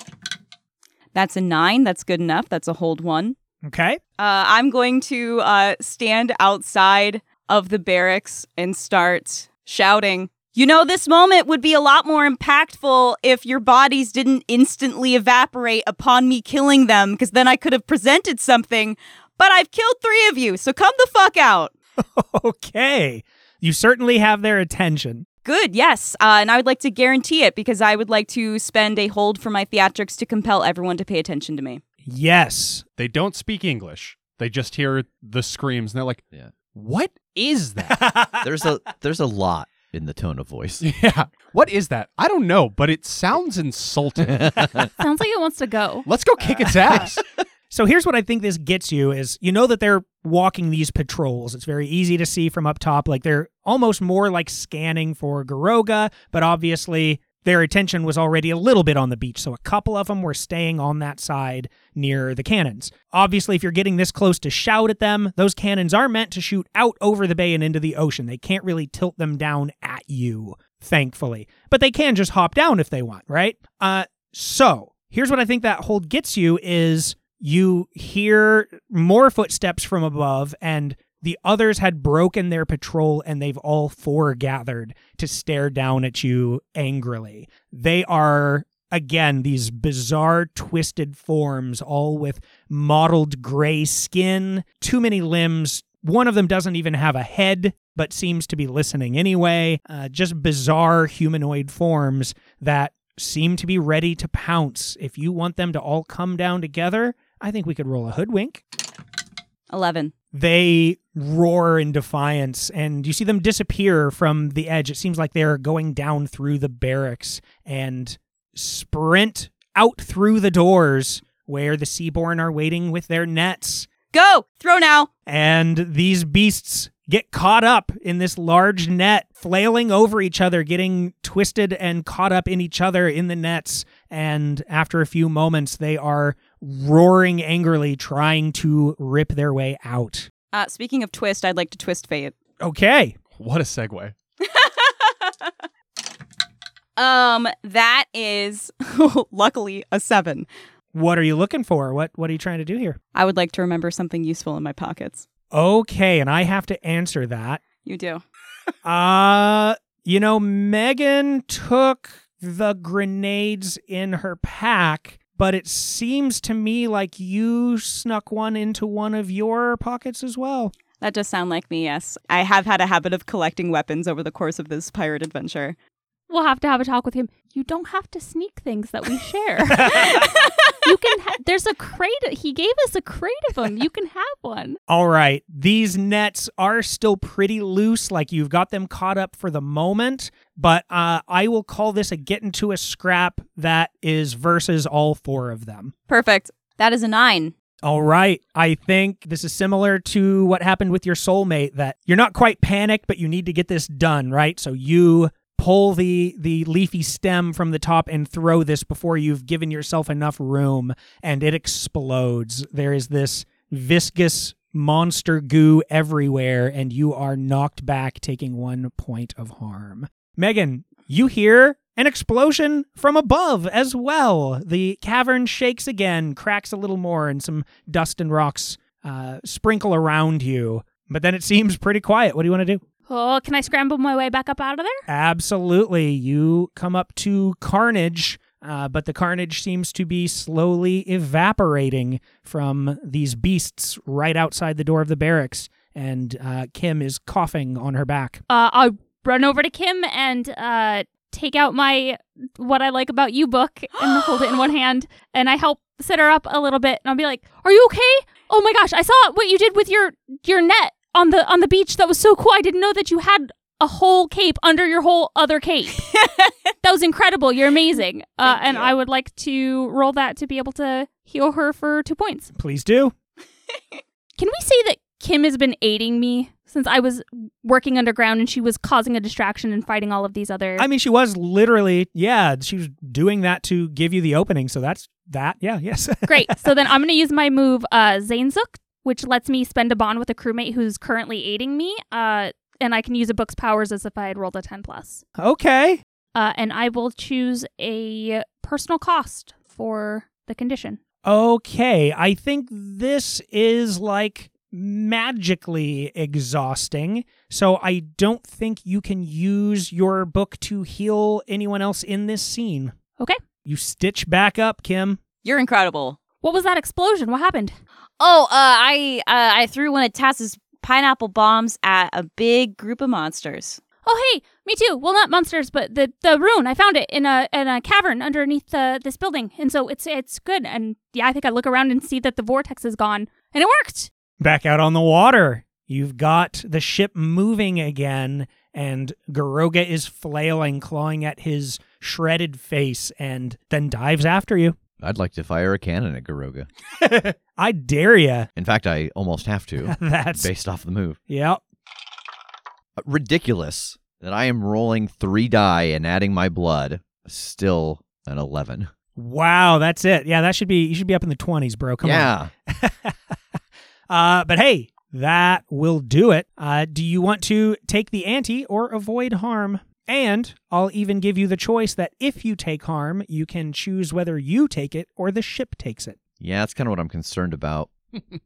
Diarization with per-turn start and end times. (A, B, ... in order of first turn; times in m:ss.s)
0:01.1-0:03.4 A
0:03.6-0:04.0 B
0:04.2-0:21.7 A
0:22.0-0:25.2 B
0:25.4-0:31.8 A
0:32.0-0:32.8 B
0:33.0-0:38.0 C
0:38.0-0:38.4 B
0:38.4-0:40.8 D
0:40.8-0:44.9 C
0:45.0-0:46.1 E
0:46.0-0:47.2 C
0:46.6-0:47.0 B
0:47.7-1:48.6 B
1:49.7-1:50.1 A
1:50.3-2:03.9 B
2:04.1-2:05.1 A
2:05.2-2:20.3 B
2:20.5-2:22.3 A
2:22.6-2:23.2 B
2:23.4-2:24.1 C
2:24.4-2:25.5 A
2:27.0-2:30.5 A
2:30.9-2:33.0 B
2:33.1-2:35.3 A
2:35.5-2:37.6 B
2:37.8-2:38.2 A
2:38.8-2:50.7 B
2:51.0-2:55.8 A
2:56.3-3:04.8 E
3:00.1-3:00.7 A
3:04.9-3:15.9 B
3:16.1-3:17.5 A
3:17.8-3:52.8 B
3:53.1-3:55.0 E
3:55.1-4:08.4 B
4:08.5-4:26.1 E
4:26.1-4:26.5 A
4:26.8-4:32.5 E
4:28.4-4:28.9 A
4:32.5-4:33.1 B
4:34.4-4:40.9 E
4:40.8-4:46.6 B
4:46.2-4:55.2 E
4:55.4-4:56.0 B
4:56.3-5:01.0 E
5:01.2-5:12.9 B
5:13.6-5:15.2 B
5:15.4-5:16.2 A
5:16.4-5:17.8 E
5:18.2-5:23.8 A
5:24.0-5:34.1 E
5:34.4-5:44.8 B
5:45.0-5:46.7 D
5:47.0-5:48.5 B
5:48.6-5:51.2 D
5:49.8-5:50.5 B
5:51.3-5:51.6 B
5:53.0-5:58.9 D
5:59.1-6:03.4 B
6:02.0-6:02.5 D
6:04.1-6:16.2 B
6:16.4-6:17.9 D